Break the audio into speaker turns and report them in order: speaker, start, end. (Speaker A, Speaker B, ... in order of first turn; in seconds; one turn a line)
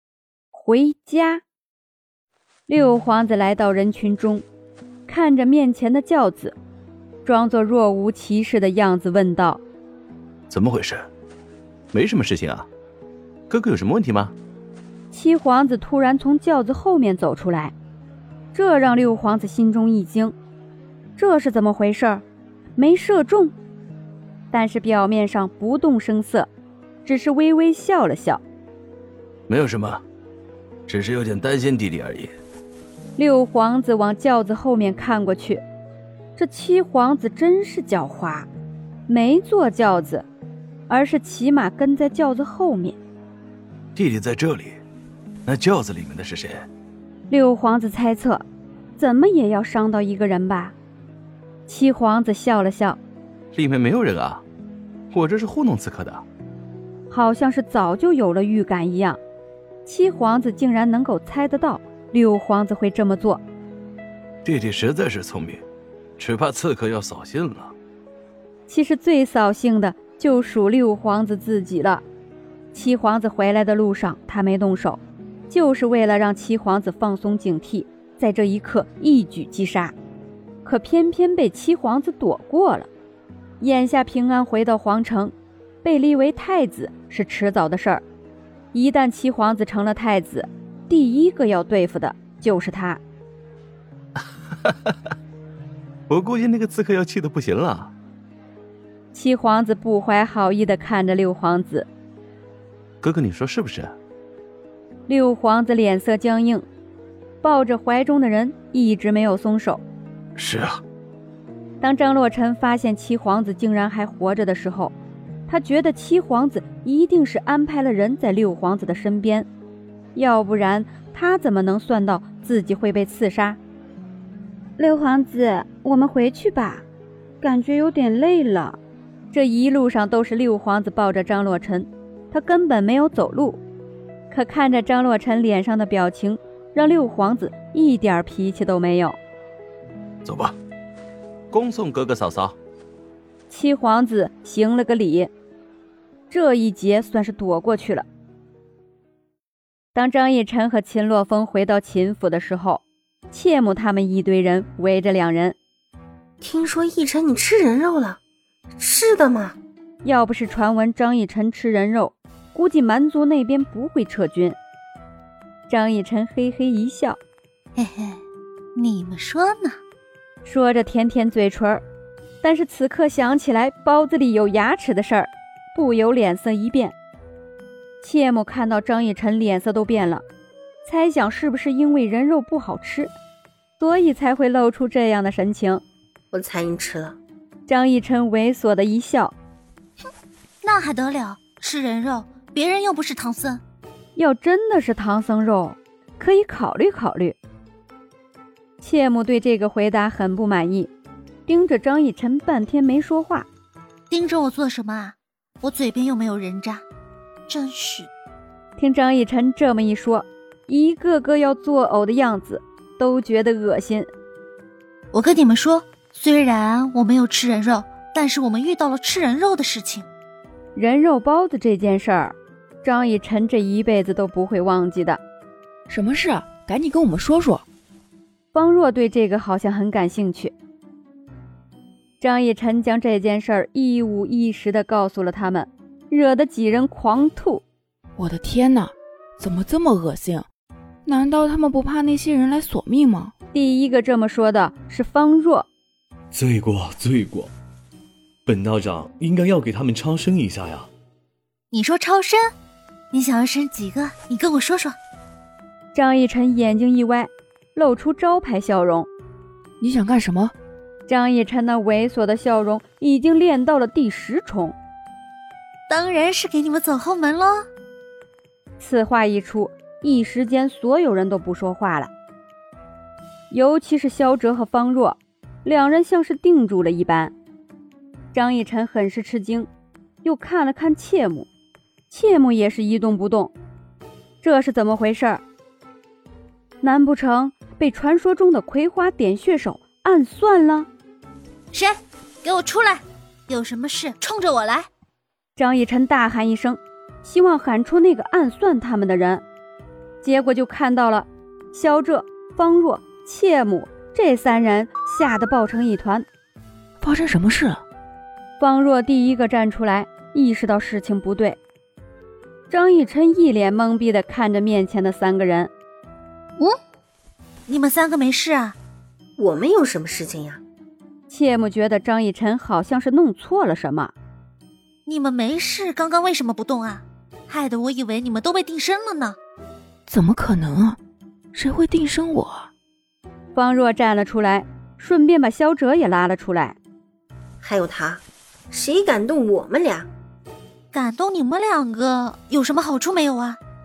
Speaker A: 0.5-1.4
Speaker A: 2.7-4.4
Speaker A: 5.1-6.5
Speaker A: 7.2-9.6
Speaker B: 10.5-11.0
Speaker B: 11.9-12.7
Speaker B: 13.5-14.3
Speaker A: 15.1-17.7
Speaker A: 18.5-20.3
Speaker A: 21.1-22.2
Speaker A: 22.8-23.5
Speaker A: 24.5-26.5
Speaker A: 27.0-28.4
Speaker B: 29.5-30.0
Speaker B: 30.9-32.3
Speaker A: 33.2-35.6
Speaker A: 36.4-38.5
Speaker A: 39.1-40.2
Speaker A: 40.9-43.0
Speaker B: 43.9-44.8
Speaker B: 45.5-46.6
Speaker A: 47.3-48.4
Speaker A: 49.0-50.7
Speaker A: 51.7-53.0
Speaker B: 53.5-54.4
Speaker B: 55.1-56.2
Speaker A: 57.1-59.2
Speaker A: 59.8-63.4
Speaker B: 64.4-65.6
Speaker B: 66.2-67.7
Speaker A: 68.7-72.0
Speaker A: 72.7-79.9
Speaker A: 80.6-82.9
Speaker A: 83.6-88.0
Speaker A: 88.7-93.0
Speaker B: 96.1-97.9
Speaker A: 99.1-101.9
Speaker B: 103.0-103.9
Speaker A: 105.1-106.6
Speaker A: 107.4-109.8
Speaker B: 110.3-110.8
Speaker A: 111.8-114.9
Speaker A: 115.5-119.5
Speaker A: 120.1-123.6
Speaker A: 124.8-126.8
Speaker A: 127.4-128.8
Speaker A: 129.3-133.6
Speaker A: 134.3-139.2
Speaker B: 140.2-140.5
Speaker B: 141.5-142.5
Speaker A: 143.5-145.3
Speaker A: 146.3-148.1
Speaker A: 149.9-155.6
Speaker C: 156.4-158.2
Speaker C: 158.8-159.6
Speaker A: 160.0-164.6
Speaker A: 165.7-167.2
Speaker D: 167.8-168.2
Speaker D: 168.7-169.8
Speaker A: 170.4-171.8
Speaker A: 172.4-176.9
Speaker A: 178.0-180.2
Speaker A: 180.8-183.1
Speaker A: 183.8-185.8
Speaker C: 186.3-187.2
Speaker A: 187.7-189.3
Speaker D: 190.6-193.6
Speaker A: 194.2-197.4
Speaker A: 198.8-200.9
Speaker A: 201.4-203.5
Speaker D: 204.1-206.8
Speaker D: 207.5-208.1
Speaker A: 208.8-214.1
Speaker D: 215.1-220.1
Speaker A: 220.7-225.2
Speaker E: 225.9-227.6
Speaker A: 228.5-230.5
Speaker A: 232.2-237.6
Speaker E: 238.2-240.5
Speaker E: 241.0-243.3
Speaker A: 243.5-245.7
Speaker F: 246.3-247.5
Speaker F: 248.4-250.9
Speaker D: 251.7-252.4
Speaker D: 253.1-254.9
Speaker A: 255.9-259.1
Speaker E: 259.8-260.5
Speaker A: 261.1-264.8
Speaker D: 265.9-267.7
Speaker A: 268.8-272.1
Speaker A: 273.5-277.3
Speaker A: 278.3-279.7
Speaker A: 280.2-281.5
Speaker A: 282.1-283.5
Speaker A: 284.4-285.4
Speaker A: 286.8-290.9
Speaker D: 291.7-294.9
Speaker A: 295.6-299.4
Speaker A: 300.2-306.2
Speaker E: 307.0-307.8
Speaker A: 308.6-311.6
Speaker A: 312.7-315.7
Speaker D: 317.7-318.7
Speaker C: 319.4-320.6
Speaker A: 321.3-324.1
Speaker D: 325.1-329.4
Speaker E: 330.1-331.0
Speaker E: 331.5-332.7
Speaker A: 333.5-336.8
Speaker C: 337.6-340.1
Speaker D: 340.9-343.6